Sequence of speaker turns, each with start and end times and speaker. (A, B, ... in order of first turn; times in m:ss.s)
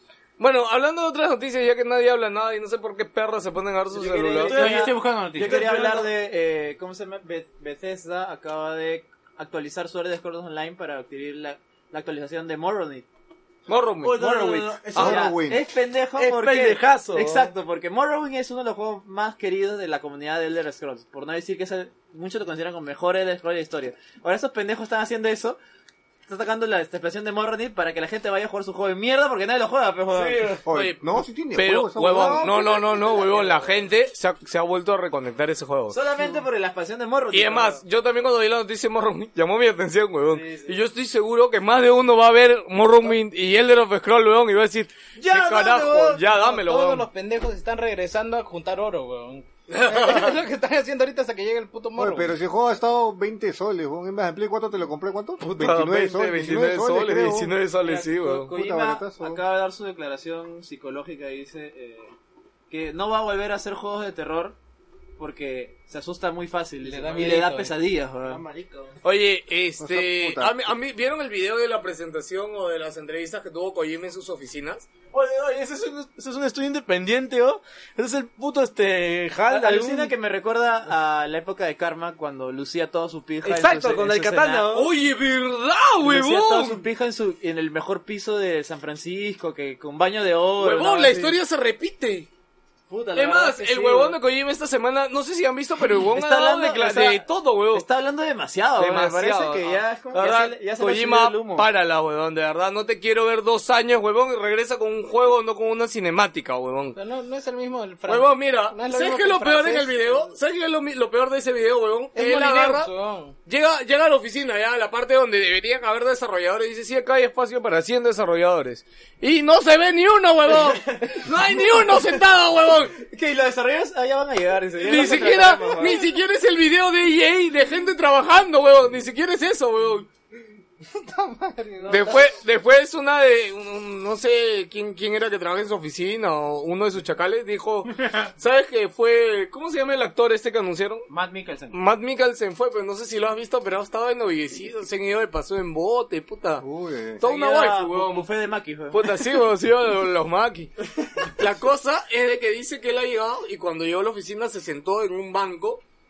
0:00.4-0:04.6 A
0:03.9-0:13.0 B
0:04.4-0:06.1 C
0:04.5-0:05.7 D
0:13.7-0:14.4 A
0:14.0-0:15.3 C
0:14.2-0:25.6 B
0:14.9-0:15.6 E
0:16.2-0:17.5 C
0:26.3-0:30.6 B
0:30.1-0:30.6 C
0:30.6-0:36.0 A
0:30.6-0:32.5 E
0:32.1-0:33.8 B
0:35.9-0:37.8 B
0:37.3-0:47.1 A
0:40.2-0:40.8 B
0:45.2-0:46.2 B
0:46.2-0:52.3 F
0:49.7-0:50.3 A
0:52.0-0:57.6 E
0:55.4-0:58.5 A
0:57.8-1:02.1 B
0:58.5-0:59.4 E
1:02.7-1:04.6 B
1:05.2-1:08.4 B
1:06.8-1:07.7 F
1:07.1-1:07.5 C
1:08.2-1:09.0 C
1:09.0-1:14.8 A
1:09.8-1:10.6 E
1:15.1-1:20.1 C
1:19.5-1:24.8 B
1:23.4-1:24.9 C
1:24.7-1:26.8 A
1:26.0-1:31.4 B
1:30.6-1:32.3 A
1:32.9-1:34.2 B
1:33.1-1:37.8 A
1:36.0-1:41.7 B
1:38.8-1:47.0 A
1:46.9-1:49.9 F
1:48.1-1:52.9 A
1:52.1-1:53.3 F
1:53.4-2:02.9 A
2:00.5-2:01.2 B
2:02.9-2:06.1 B
2:04.8-2:10.1 A
2:10.9-2:12.1 F
2:11.8-2:12.3 B
2:11.9-2:21.0 A
2:21.1-2:21.8 D
2:21.7-2:26.6 A
2:26.6-2:27.2 E
2:27.2-2:28.3 A
2:27.2-2:29.1 B
2:28.9-2:35.8 A